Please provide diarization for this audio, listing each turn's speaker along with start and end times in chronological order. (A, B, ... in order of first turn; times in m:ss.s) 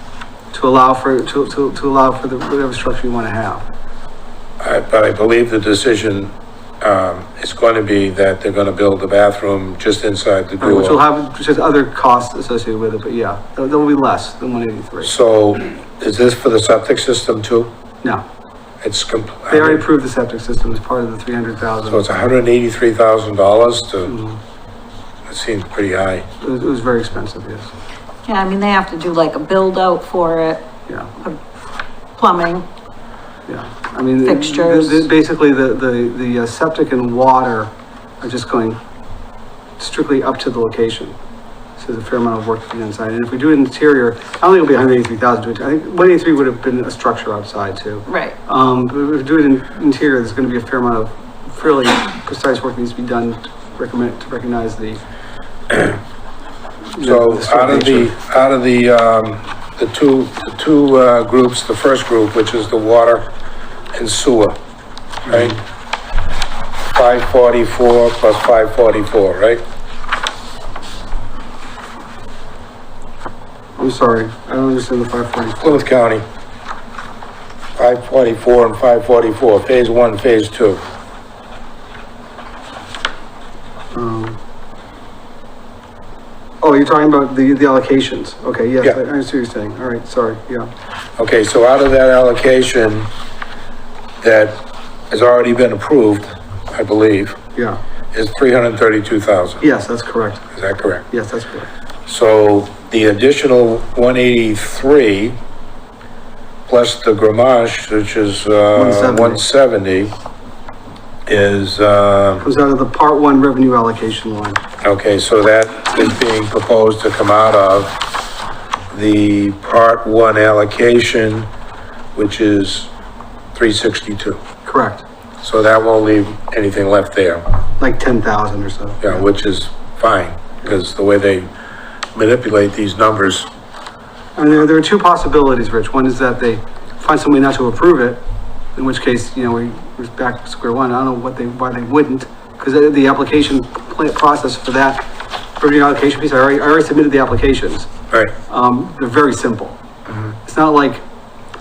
0:00.5-0:03.6 A
0:04.6-0:11.0 B
0:10.6-0:15.1 A
0:15.0-0:17.7 B
0:18.8-0:19.8 B
0:19.5-0:22.0 A
0:21.8-0:24.2 B
0:24.0-0:24.4 A
0:25.3-0:26.3 B
0:26.4-0:27.7 A
0:28.2-0:30.6 C
0:32.2-0:32.6 C
0:33.5-0:38.8 A
0:34.2-0:35.0 C
0:39.8-0:41.2 A
0:41.8-0:55.0 A
0:48.1-0:48.4 C
0:56.9-0:58.1 A
0:57.0-1:03.3 B
1:03.9-1:04.6 B
1:05.2-1:05.6 B
1:05.3-1:05.6 A
1:06.9-1:09.6 B
1:13.8-1:15.8 A
1:15.6-1:16.2 B
1:17.8-1:20.8 B
1:23.9-1:24.4 A
1:26.6-1:30.7 A
1:31.2-1:33.1 B
1:34.2-1:37.4 B
1:37.5-1:37.8 A
1:38.1-1:39.6 B
1:39.6-1:40.4 A
1:40.5-1:41.0 B
1:41.1-1:41.7 A
1:42.0-1:45.4 B
1:46.7-1:50.1 B
1:48.7-1:49.4 A
1:51.3-1:52.4 B
1:52.4-1:54.6 A
1:54.8-1:58.0 B
1:58.9-2:01.5 B
2:02.1-2:02.9 B
2:03.5-2:04.4 B
2:04.6-2:05.0 A
2:05.4-2:07.4 B
2:07.8-2:09.2 A
2:09.0-2:11.5 B
2:12.1-2:13.5 B
2:14.4-2:18.2 A
2:18.8-2:25.1 A
2:25.6-2:27.9 A
2:28.5-2:29.8 A
2:30.1-2:30.4 B
2:30.4-2:31.0 A